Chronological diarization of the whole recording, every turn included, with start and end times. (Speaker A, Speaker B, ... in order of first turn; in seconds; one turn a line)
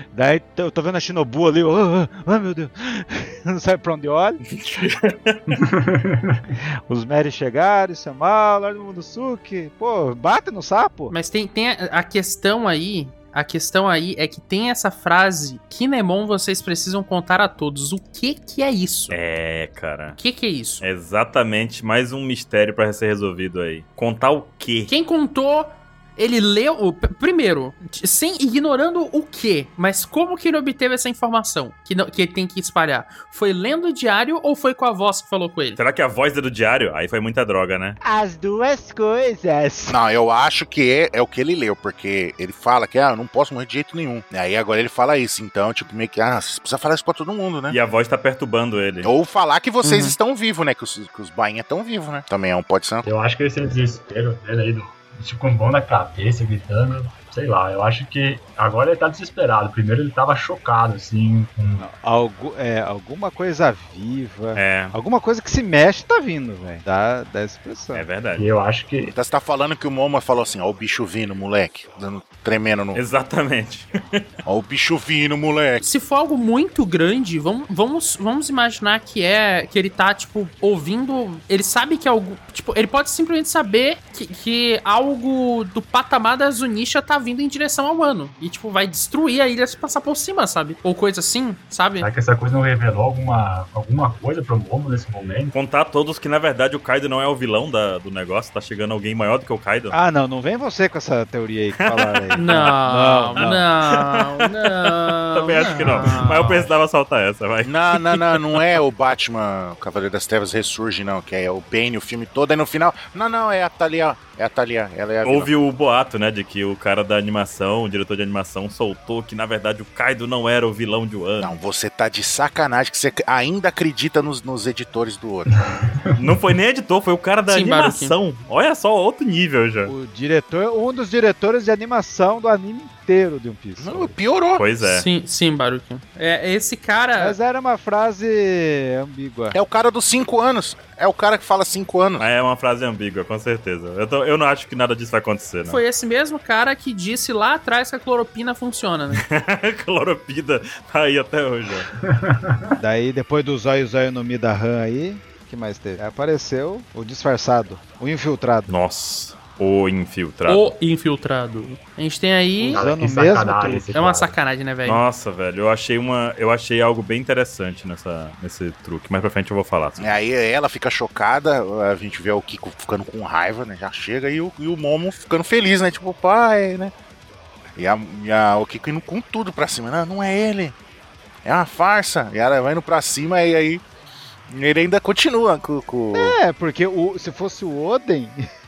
Speaker A: 0.1-4.4
Speaker B: 4.5-5.4
Speaker C: 5.5-6.4
Speaker A: 6.9-11.1
Speaker D: 11.1-19.2
Speaker B: 19.1-20.2
Speaker D: 20.1-20.8
Speaker B: 20.8-24.9
Speaker D: 24.9-35.8
Speaker B: 35.8-38.0
Speaker A: 38.0-40.0
Speaker E: 39.9-47.8
Speaker B: 47.7-49.1
Speaker E: 49.0-53.1
Speaker D: 49.8-50.1
Speaker C: 53.0-61.9
Speaker A: 61.8-68.0
Speaker B: 64.5-64.9
Speaker B: 67.9-68.5
Speaker C: 68.3-69.1
Speaker E: 69.1-73.0
Speaker B: 72.9-74.2
Speaker E: 74.4-75.8
Speaker D: 75.8-92.1
Speaker C: 92.0-95.5
Speaker B: 95.5-99.9
Speaker A: 99.9-103.6
Speaker B: 101.8-102.7
Speaker D: 102.3-106.7
Speaker B: 103.3-108.7
Speaker E: 107.6-115.5
Speaker B: 115.2-121.5
Speaker E: 121.4-125.5
Speaker C: 125.6-126.3
Speaker B: 126.1-129.9
Speaker D: 127.5-128.1
Speaker A: 129.8-134.1
Speaker E: 133.8-134.7
Speaker B: 134.6-135.1
Speaker D: 134.8-137.4
Speaker A: 137.2-139.6
Speaker E: 139.5-142.3
Speaker B: 142.2-145.8
Speaker D: 145.7-149.2
Speaker B: 149.1-151.9
Speaker C: 152.1-152.7
Speaker A: 152.8-158.7
Speaker B: 158.7-160.7
Speaker D: 160.4-162.9
Speaker A: 162.6-163.9
Speaker C: 162.7-164.4
Speaker D: 163.9-165.0
Speaker B: 164.8-170.2
Speaker E: 170.0-176.9
Speaker E: 177.8-180.8
Speaker E: 181.4-183.8
Speaker E: 184.5-186.3
Speaker A: 186.1-188.5